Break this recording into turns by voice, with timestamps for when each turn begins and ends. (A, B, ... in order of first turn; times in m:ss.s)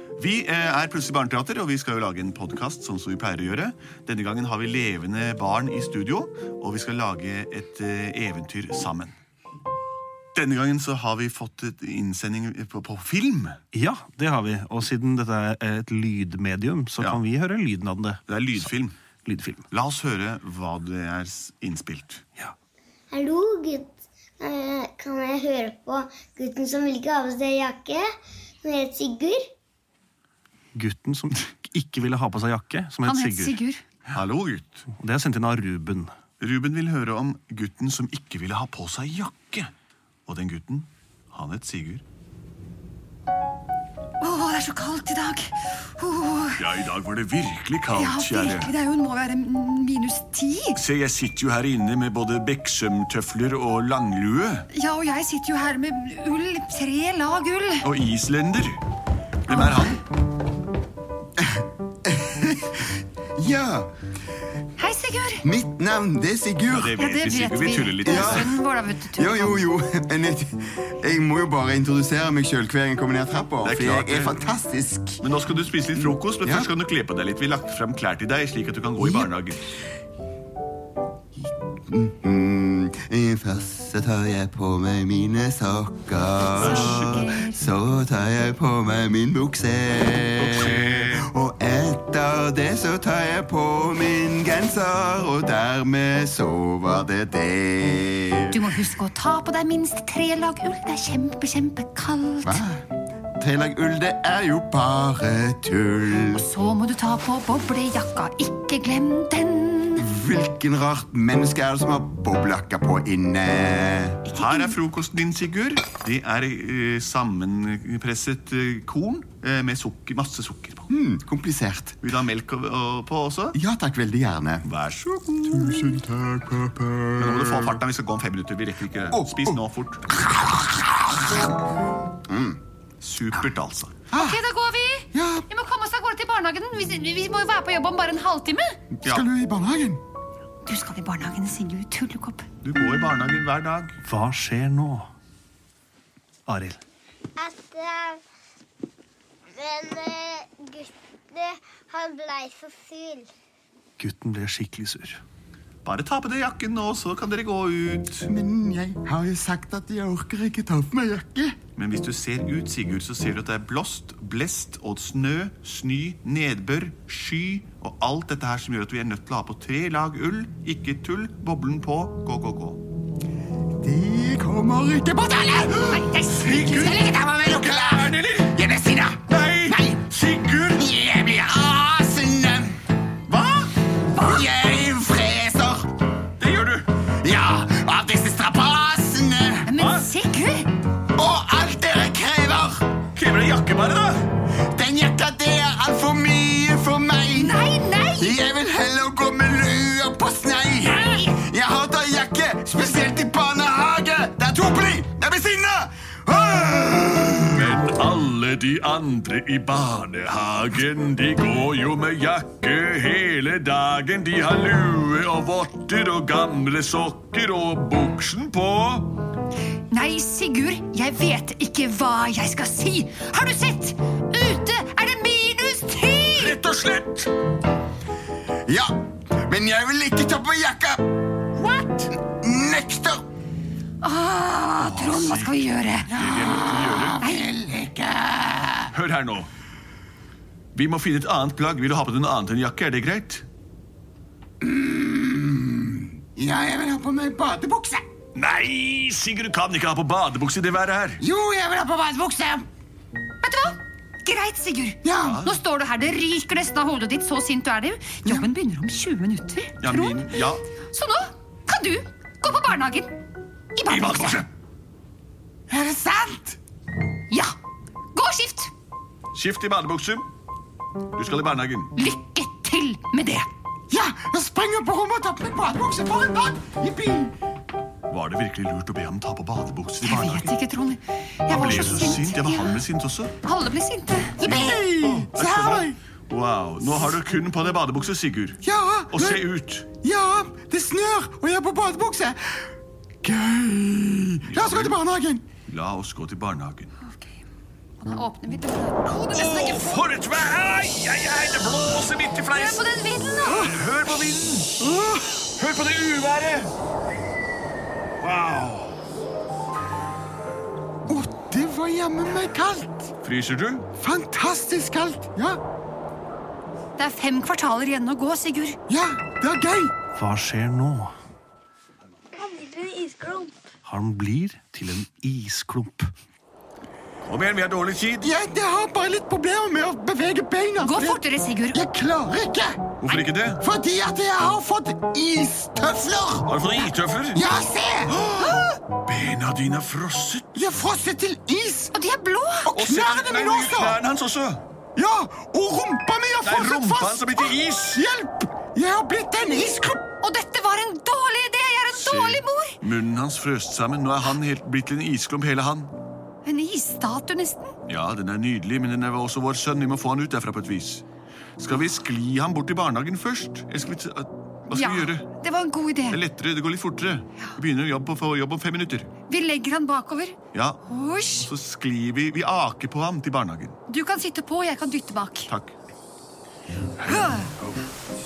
0:00.2-0:09.2 A
0:10.4-0:13.6 A
0:13.7-0:18.7 B
0:18.3-0:19.0 A
0:19.2-0:19.6 B
0:19.7-0:22.2 A
0:23.1-0:28.0 C
0:28.6-0:29.5 C
0:30.8-0:33.6 B
0:33.0-0:33.8 D
0:34.1-0:34.9 A
0:34.9-0:36.1 B
0:36.4-0:39.7 A
0:40.3-0:42.0 A
0:44.2-0:46.6 D
0:46.6-0:48.7 A
0:47.9-0:50.8 D
0:50.8-0:54.7 A
0:54.7-0:57.9 D
0:57.8-0:58.8 A
0:59.5-1:00.0 A
0:59.5-1:00.0 D
1:01.4-1:03.9 E
1:04.8-1:05.4 D
1:05.4-1:07.0 E
1:06.7-1:08.6 A
1:06.9-1:09.7 D
1:08.0-1:08.6 E
1:09.2-1:15.2 E
1:13.6-1:14.5 A
1:15.2-1:19.6 A
1:16.4-1:16.7 E
1:19.0-1:19.3 E
1:21.5-1:38.7 E
1:26.6-1:27.2 A
1:26.6-1:27.6 D
1:30.4-1:31.3 A
1:38.5-1:42.6 D
1:42.4-1:42.8 E
1:43.4-1:46.5 E
1:46.3-1:50.0 D
1:50.0-1:54.2 E
1:54.3-1:54.8 D
1:54.3-2:00.9 A
2:00.9-2:02.0 E
2:02.0-2:03.6 A
2:03.5-2:04.7 E
2:04.6-2:05.9 A
2:05.5-2:07.8 E
2:07.2-2:10.1 A
2:09.1-2:09.6 E
2:10.1-2:11.5 E
2:12.3-2:12.6 E
2:13.0-2:14.0 A
2:14.1-2:14.4 E
2:14.2-2:18.8 D
2:15.1-2:15.5 E
2:19.0-2:20.0 E
2:20.6-2:22.5 D
2:22.6-2:24.0 A
2:24.0-2:25.1 B
2:26.5-2:26.8 B
2:27.4-2:28.2 C
2:29.5-2:33.3 C
2:34.0-2:35.2 B
2:35.8-2:38.3 A
2:38.3-2:41.6 E
2:41.8-2:52.8 A
2:53.8-3:00.0 E
2:55.9-2:57.2 D
2:56.3-2:58.6 A
2:59.3-3:00.9 A
3:00.7-3:02.8 E
3:03.3-3:03.7 A
3:04.2-3:05.9 E
3:06.4-3:06.9 A
3:07.2-3:09.7 E
3:09.7-3:10.7 D
3:09.8-3:10.1 A
3:11.2-3:13.0 E
3:13.1-3:14.3 A
3:14.7-3:17.6 E
3:17.3-3:18.4 D
3:18.2-3:27.8 E
3:20.8-3:21.3 D
3:27.5-3:39.2 A
3:39.9-3:46.6 D
3:46.4-3:47.3 A
3:48.7-3:51.1 E
3:51.7-3:52.0 A
3:52.2-3:53.2 E
3:54.0-3:56.1 D
3:54.8-3:57.2 A
3:56.2-3:58.9 E
3:58.9-3:59.5 A
4:00.8-4:03.4 A
4:04.6-4:08.0 E
4:08.4-4:11.2 A
4:11.2-4:12.7 E
4:13.4-4:20.3 D
4:15.0-4:15.4 E
4:15.2-4:15.6 A
4:19.8-4:20.6 A
4:20.9-4:23.1 D
4:23.8-4:24.4 D
4:23.9-4:24.5 A
4:25.7-4:26.6 E
4:27.3-4:27.6 D
4:28.2-4:28.7 D
4:29.3-4:30.3 A
4:31.1-4:31.9 A
4:32.0-4:33.5 D
4:33.9-4:37.4 E
4:38.1-4:40.5 A
4:40.0-4:42.8 D
4:41.5-4:43.3 A
4:43.4-4:44.6 D
4:44.4-4:46.0 E
4:44.4-4:49.9 A
4:48.6-4:49.5 E
4:50.0-4:52.7 E
4:53.2-4:55.4 E
4:54.5-4:55.0 A
4:55.7-4:56.9 A
4:57.0-4:57.4 D
4:58.0-5:00.0 D
4:59.1-5:02.9 A
5:02.5-5:03.8 D
5:03.4-5:04.8 A
5:03.5-5:03.7 E
5:04.8-5:05.4 E
5:05.6-5:06.7 A
5:08.2-5:08.9 A
5:11.1-5:13.1 E
5:13.2-5:13.8 A
5:14.0-5:15.6 E
5:17.0-5:18.8 D
5:18.9-5:19.9 E
5:20.2-5:21.1 B
5:22.6-5:23.3 C
5:23.8-5:26.1 B
5:27.2-5:28.3 A
5:28.2-5:32.9 E
5:30.8-5:31.8 D
5:33.0-5:33.6 A
5:33.6-5:36.5 E
5:36.5-5:37.4 A
5:37.3-5:38.2 E
5:38.1-5:40.5 A
5:40.6-5:41.9 E
5:41.9-5:42.7 D
5:42.7-5:44.0 E
5:42.7-5:44.6 A
5:45.0-5:50.0 E
5:46.4-5:48.0 A
5:50.2-5:52.8 D
5:51.9-5:55.9 A
5:56.4-5:57.7 D
5:57.9-6:01.0 A
6:01.6-6:05.3 A
6:04.7-6:06.2 D
6:06.1-6:09.1 A
6:09.3-6:11.5 D
6:10.5-6:10.8 A
6:11.4-6:13.8 A
6:13.9-6:15.5 D
6:15.5-6:15.7 A
6:17.0-6:17.5 D